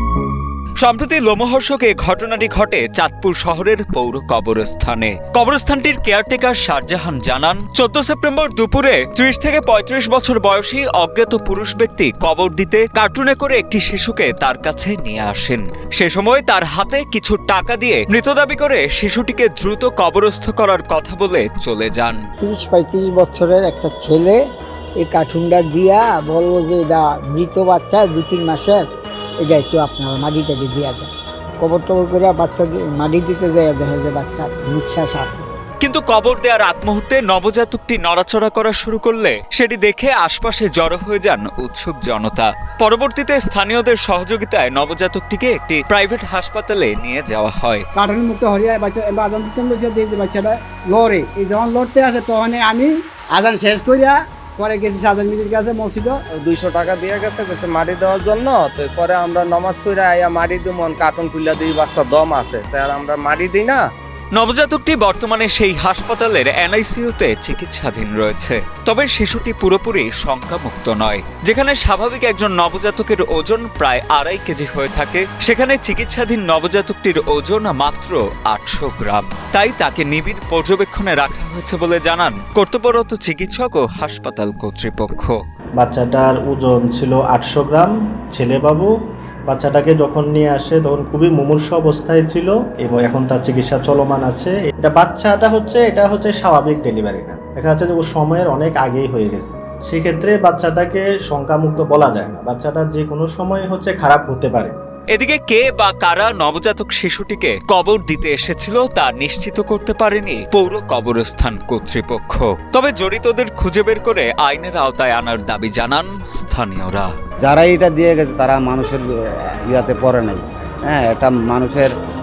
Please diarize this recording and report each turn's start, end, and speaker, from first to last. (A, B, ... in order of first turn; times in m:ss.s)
0:00.8-0:22.2 A
0:22.4-0:24.4 B
0:25.0-0:28.9 B
0:29.4-0:35.4 B
0:35.8-0:47.9 A
0:48.0-1:03.2 C
0:57.3-1:01.7 D
1:02.4-1:03.8 D
1:04.4-1:25.4 A
1:25.8-1:28.9 E
1:29.5-1:44.8 E
1:45.1-1:57.1 A
1:57.4-1:59.0 F
1:59.7-2:01.9 F